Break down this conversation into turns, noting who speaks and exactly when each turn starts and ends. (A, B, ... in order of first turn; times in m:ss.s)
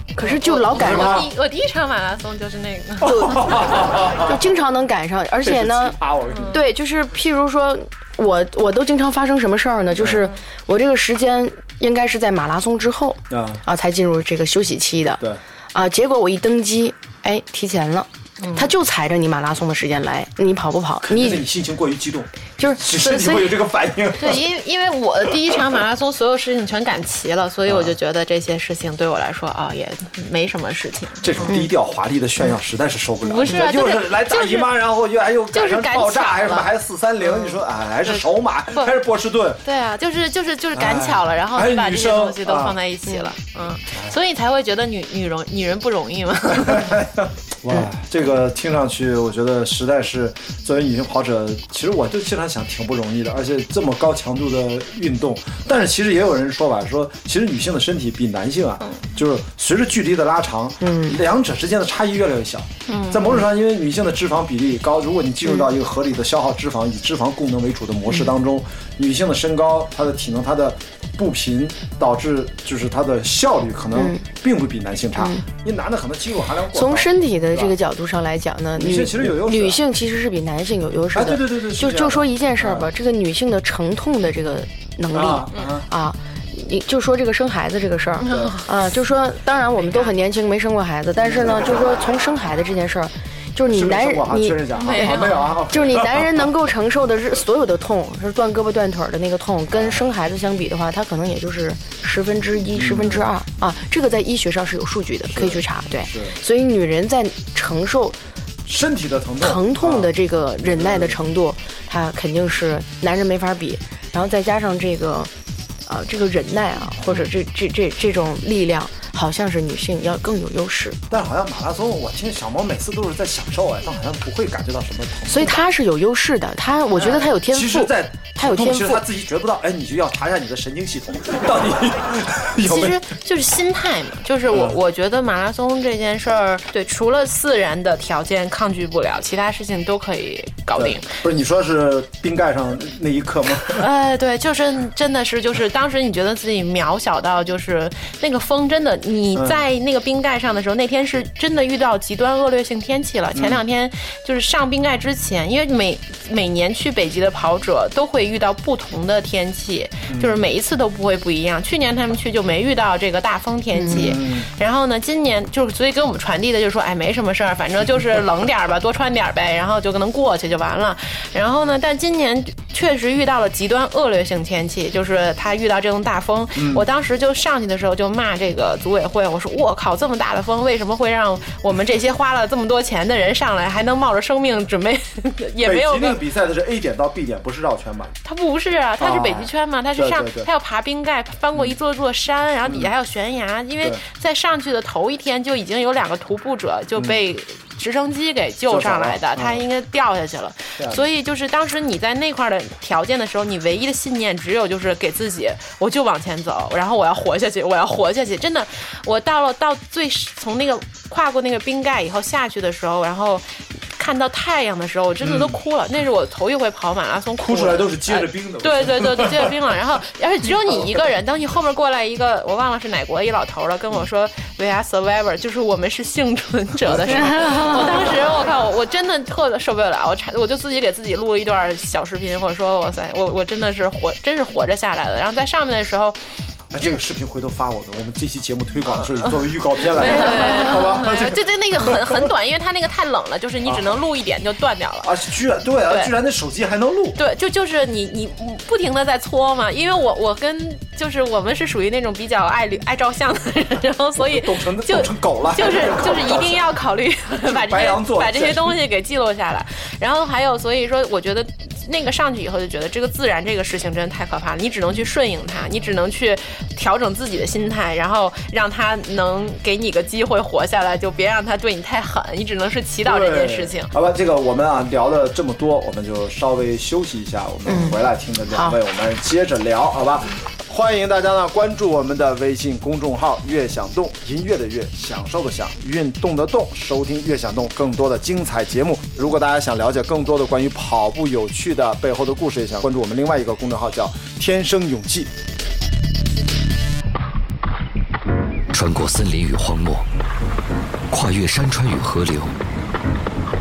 0:00.2-0:01.2 A
0:00.2-0:03.4 B
0:00.7-0:01.3 C
0:03.0-0:04.4 C
0:03.0-0:06.0 A
0:05.4-0:06.6 C
0:06.3-0:06.6 B
0:06.5-0:21.4 A
0:13.3-0:13.6 C
0:18.4-0:18.7 B
0:21.0-0:24.4 C
0:22.6-0:23.6 A
0:24.2-0:31.5 B
0:27.7-0:27.9 C
0:31.2-0:39.6 C
0:31.4-0:31.7 A
0:33.2-0:34.7 B
0:35.5-0:36.7 B
0:37.2-0:38.9 B
0:39.6-0:46.9 B
0:40.7-0:42.8 C
0:46.5-1:17.7 C
1:00.8-1:01.2 A
1:02.9-1:03.4 B
1:13.9-1:14.2 A
1:15.2-1:15.4 A
1:16.7-1:35.1 A
1:18.7-1:19.8 C
1:21.1-1:22.9 C
1:25.1-1:25.8 C
1:28.2-1:28.8 B
1:28.3-1:28.5 C
1:29.8-1:30.1 B
1:31.2-1:31.7 C
1:33.7-1:36.5 C
1:34.7-1:35.6 B
1:35.7-1:48.2 A
1:39.7-1:40.1 C
1:42.7-1:43.2 C
1:45.3-1:46.4 C
1:48.6-1:51.2 C
1:49.4-1:55.3 A
1:55.8-2:01.0 A
2:01.1-2:05.6 C
2:05.3-2:09.0 A
2:07.0-2:07.2 B
2:07.4-2:13.0 C
2:12.6-2:21.1 B
2:14.5-2:14.8 C
2:20.8-2:23.8 C
2:23.6-3:06.2 B
2:29.3-2:29.6 C
2:33.3-2:33.6 C
2:40.1-2:40.4 C
2:43.7-2:44.2 A
2:43.9-2:44.5 C
2:56.6-2:56.8 C
3:05.6-3:08.2 C
3:08.2-3:56.2 B
3:09.0-3:10.5 C
3:18.7-3:19.6 C
3:20.8-3:21.0 C
3:35.2-3:35.6 C
3:37.4-3:39.6 C
3:40.6-3:41.0 C
3:56.7-4:02.2 C
3:59.2-4:05.1 B
4:03.6-4:04.0 C
4:05.0-4:07.2 C
4:07.2-4:33.9 B
4:14.2-4:16.6 C
4:17.4-4:18.8 C
4:33.0-4:55.3 C
4:37.7-4:38.8 A
4:58.7-5:00.1 D
5:01.1-5:02.5 D